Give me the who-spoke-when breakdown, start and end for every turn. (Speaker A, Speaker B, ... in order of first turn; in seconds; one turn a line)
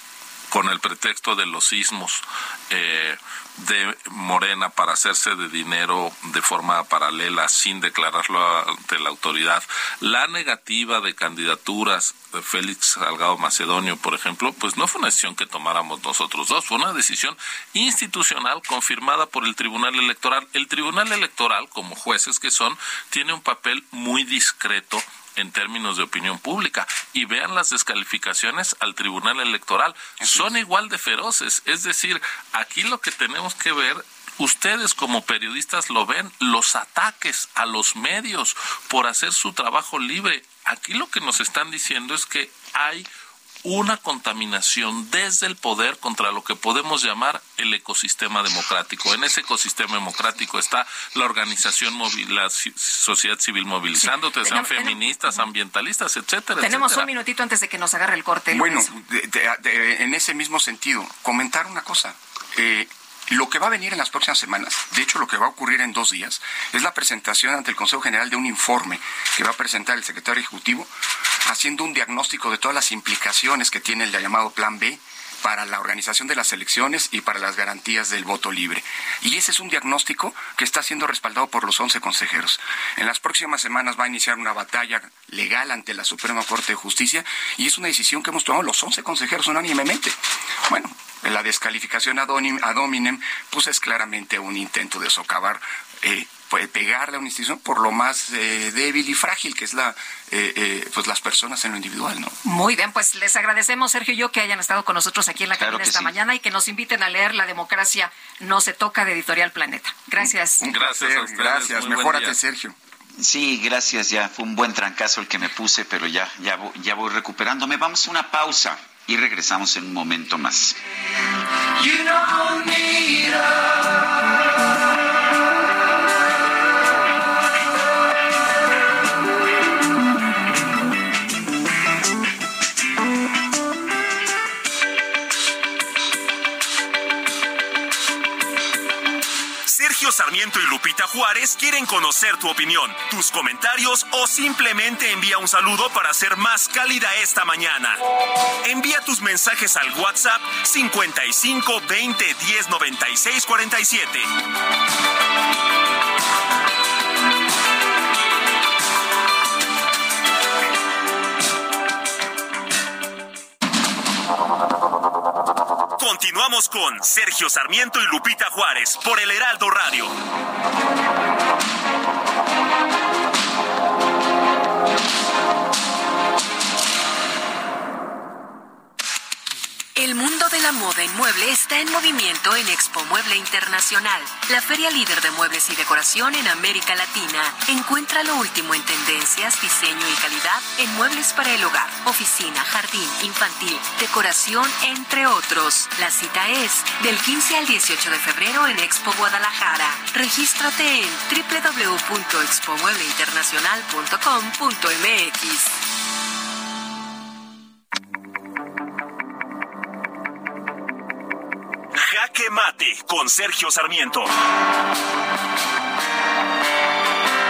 Speaker A: 0.5-43.1
Speaker B: 30.2-30.5
Speaker A: 43.6-57.1
Speaker C: 54.0-55.4
Speaker C: 56.6-58.9
Speaker B: 58.5-70.9
Speaker B: 71.4-102.4
Speaker C: 102.4-110.7
Speaker D: 105.5-106.1
Speaker B: 110.6-112.8
Speaker A: 110.7-112.4
Speaker D: 113.2-120.8
Speaker E: 139.7-148.0
Speaker E: 148.6-154.3
Speaker E: 166.0-170.2
Speaker F: 179.9-205.7
Speaker E: 211.9-214.3